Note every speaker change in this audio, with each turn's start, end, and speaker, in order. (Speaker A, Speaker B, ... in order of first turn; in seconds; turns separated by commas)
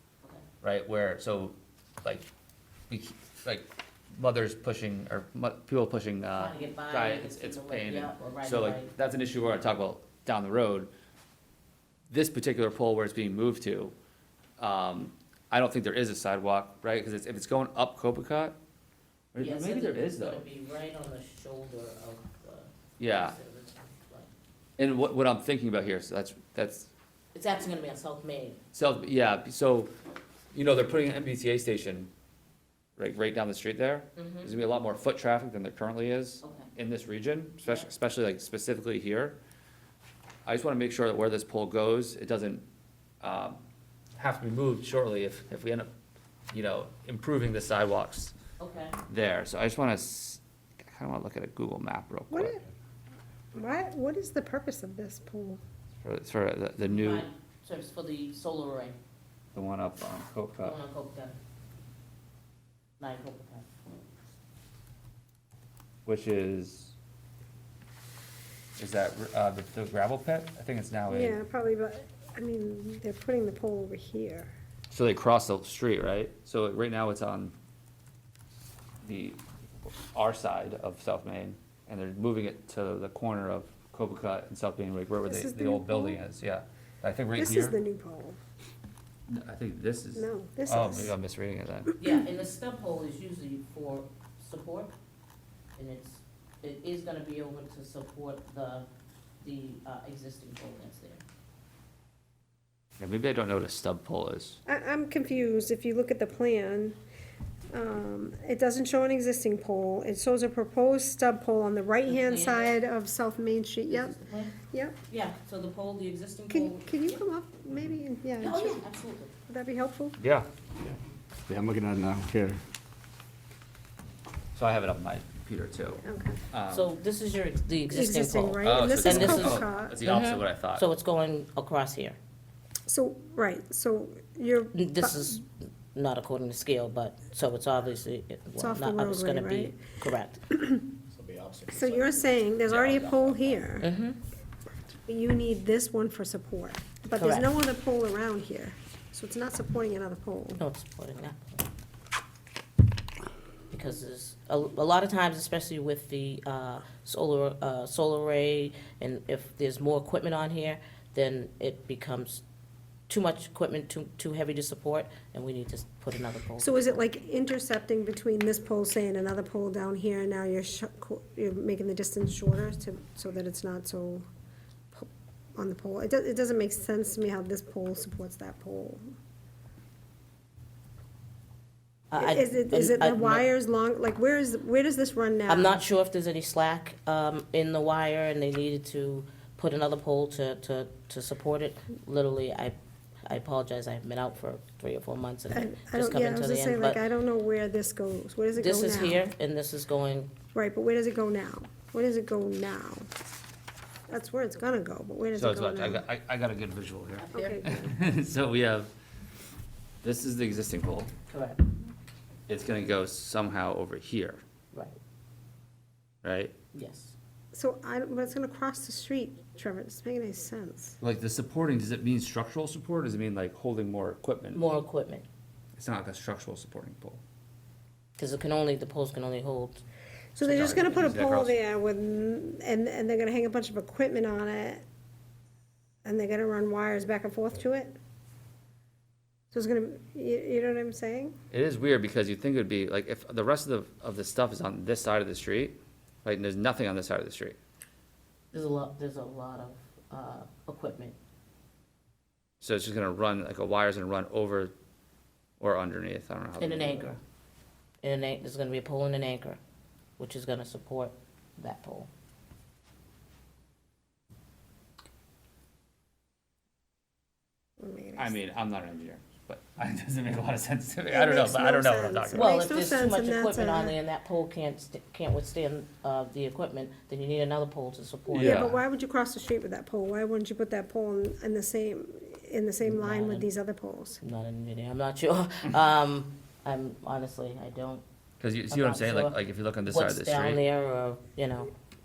Speaker A: 0.6-2.2, Speaker A: 2.9-10.9, Speaker B: 6.3-8.9, Speaker A: 12.1-13.9, Speaker A: 14.6-18.6, Speaker A: 19.3-20.4, Speaker B: 19.4-24.3, Speaker A: 23.0-23.4, Speaker A: 24.8-26.9, Speaker B: 27.3-28.6, Speaker A: 28.7-29.9, Speaker A: 30.5-32.1, Speaker A: 33.0-39.4, Speaker B: 34.1-34.6, Speaker B: 36.4-36.7, Speaker A: 40.5-42.6, Speaker A: 43.2-43.6, Speaker A: 44.2-45.9, Speaker A: 46.5-48.3, Speaker B: 48.6-49.0, Speaker A: 49.1-52.5, Speaker C: 52.3-52.6, Speaker C: 53.5-55.6, Speaker A: 56.0-57.2, Speaker B: 56.9-59.0, Speaker A: 59.5-60.8, Speaker B: 60.6-61.4, Speaker B: 63.0-63.7, Speaker A: 66.0-66.9, Speaker A: 68.8-71.4, Speaker C: 71.1-74.5, Speaker A: 74.9-77.5, Speaker A: 79.0-87.8, Speaker C: 85.2-86.2, Speaker C: 87.3-88.4, Speaker A: 89.3-91.9, Speaker C: 90.2-91.1, Speaker B: 92.0-94.9, Speaker B: 95.8-98.9, Speaker B: 99.4-101.2, Speaker A: 103.0-104.6, Speaker C: 104.7-107.0, Speaker C: 107.7-114.2, Speaker B: 112.1-112.8, Speaker B: 113.9-114.5, Speaker C: 114.7-115.0, Speaker B: 115.1-117.0, Speaker C: 116.5-118.8, Speaker B: 118.4-119.3, Speaker C: 119.5-120.2, Speaker A: 120.2-120.5, Speaker D: 120.8-122.6, Speaker A: 124.5-126.9, Speaker C: 126.0-126.4, Speaker B: 126.7-132.2, Speaker C: 127.9-130.0, Speaker A: 128.6-130.8, Speaker C: 132.9-135.3, Speaker B: 134.7-140.4, Speaker C: 138.6-139.8, Speaker C: 140.5-140.9, Speaker D: 141.1-143.5, Speaker C: 141.7-143.9, Speaker B: 143.8-144.2, Speaker C: 145.1-150.6, Speaker B: 147.2-147.4, Speaker B: 150.6-151.6, Speaker B: 153.7-162.4, Speaker B: 163.1-167.0, Speaker C: 166.6-174.2, Speaker C: 174.9-179.0, Speaker B: 182.1-183.4, Speaker C: 182.2-185.8, Speaker B: 185.5-192.7, Speaker B: 193.3-197.0, Speaker C: 195.5-199.2, Speaker B: 198.6-200.3, Speaker C: 200.5-203.1, Speaker C: 204.1-206.0, Speaker A: 205.3-208.9, Speaker B: 207.2-207.6, Speaker C: 207.3-207.9, Speaker A: 210.0-211.1, Speaker B: 211.3-211.7, Speaker A: 212.5-214.4, Speaker B: 214.7-215.0, Speaker A: 216.2-216.6, Speaker B: 216.7-217.1, Speaker C: 217.5-221.0, Speaker A: 221.0-224.6, Speaker B: 224.5-225.2, Speaker A: 225.7-227.2, Speaker B: 228.2-229.8, Speaker C: 230.3-234.8, Speaker A: 230.4-231.5, Speaker C: 236.0-237.9, Speaker C: 239.5-241.4, Speaker A: 241.5-247.6, Speaker B: 248.5-251.2, Speaker A: 252.6-254.7, Speaker A: 255.6-257.1, Speaker B: 256.6-257.2, Speaker B: 258.0-259.6, Speaker B: 260.2-262.1, Speaker C: 267.8-268.4, Speaker A: 268.2-272.5, Speaker C: 271.1-274.0, Speaker B: 272.3-278.7, Speaker C: 278.3-284.2, Speaker A: 278.3-278.8, Speaker B: 282.8-283.5, Speaker B: 284.2-288.0, Speaker A: 288.4-290.6, Speaker B: 288.7-291.7